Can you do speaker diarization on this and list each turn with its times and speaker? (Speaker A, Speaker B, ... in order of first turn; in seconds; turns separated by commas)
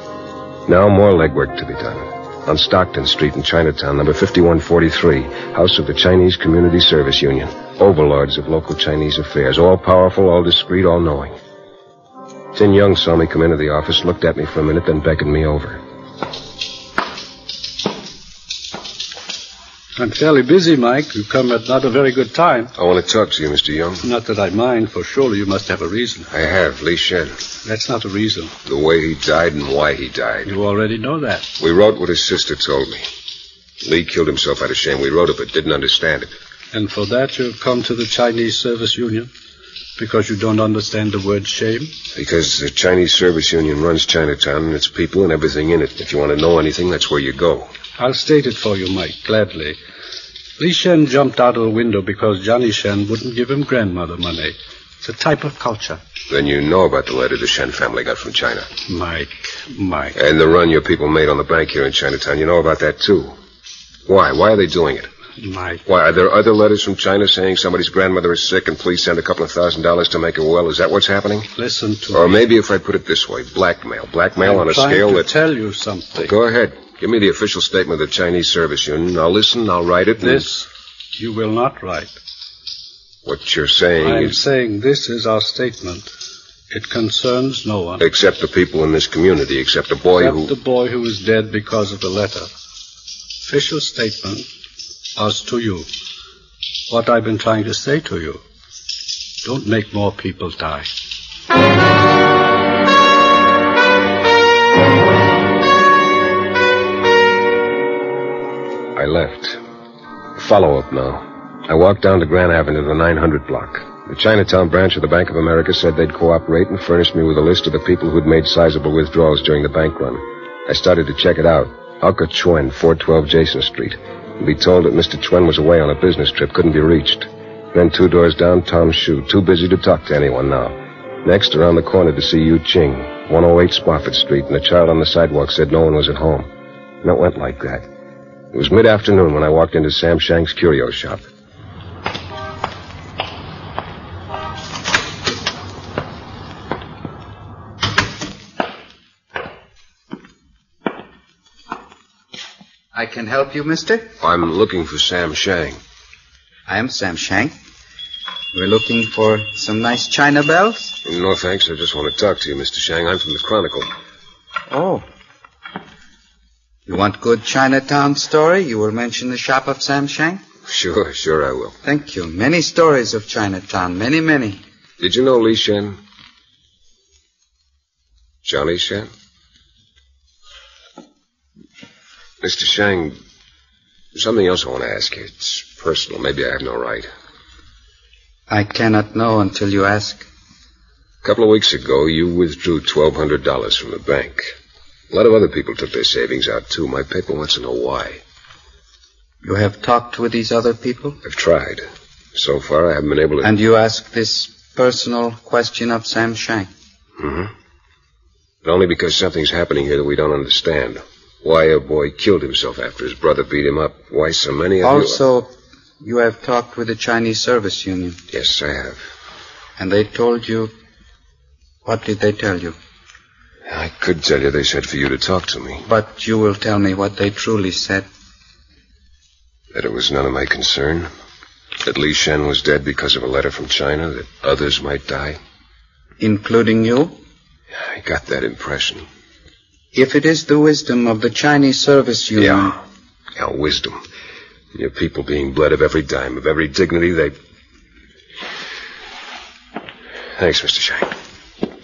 Speaker A: 0.7-11.4, Speaker A: 12.5-15.8, Speaker B: 20.0-22.7, Speaker A: 22.8-24.0, Speaker B: 24.0-26.3, Speaker A: 26.3-27.3, Speaker B: 27.6-28.5, Speaker A: 28.7-30.5, Speaker B: 30.4-31.5, Speaker A: 31.6-33.0, Speaker A: 33.8-36.3, Speaker B: 36.7-39.3, Speaker B: 40.0-41.9, Speaker A: 42.1-47.7, Speaker B: 48.0-49.8, Speaker B: 50.6-56.0, Speaker A: 56.3-58.7, Speaker B: 58.9-60.2, Speaker A: 60.2-63.4, Speaker A: 64.1-65.1, Speaker B: 65.4-65.8, Speaker A: 65.9-71.5, Speaker B: 71.6-72.4, Speaker A: 72.1-75.3, Speaker B: 74.4-76.3, Speaker A: 76.2-80.5, Speaker B: 80.2-82.1, Speaker A: 83.2-84.4, Speaker B: 84.0-86.1, Speaker B: 86.7-88.0, Speaker A: 88.0-90.5, Speaker B: 90.2-92.5, Speaker B: 93.4-94.5, Speaker B: 95.2-95.9, Speaker B: 96.9-98.4, Speaker B: 99.4-100.9, Speaker A: 109.0-109.6, Speaker A: 110.4-136.5, Speaker A: 137.0-137.9, Speaker A: 138.5-141.2, Speaker C: 152.9-154.1, Speaker A: 154.2-155.8, Speaker C: 156.7-157.5, Speaker C: 158.5-161.0, Speaker A: 161.1-163.9, Speaker C: 164.7-165.1, Speaker C: 166.9-170.4, Speaker A: 170.7-171.8, Speaker C: 171.8-174.6, Speaker A: 175.0-176.0, Speaker A: 178.4-179.1, Speaker A: 182.4-183.2, Speaker A: 184.1-187.1, Speaker C: 188.5-190.3, Speaker A: 191.2-194.5, Speaker A: 195.1-198.2, Speaker C: 199.4-201.2, Speaker A: 201.2-203.5, Speaker C: 203.4-206.7, Speaker A: 207.2-207.5, Speaker A: 208.6-215.2, Speaker C: 214.8-218.2, Speaker A: 218.3-219.0, Speaker C: 219.8-220.7, Speaker C: 221.8-222.8, Speaker A: 223.7-225.8, Speaker C: 225.9-228.1, Speaker A: 229.7-231.1, Speaker A: 231.8-235.4, Speaker C: 236.2-237.2, Speaker A: 237.8-239.1, Speaker C: 239.9-242.8, Speaker A: 242.4-242.7, Speaker A: 243.4-244.0, Speaker A: 244.7-247.3, Speaker A: 250.4-251.1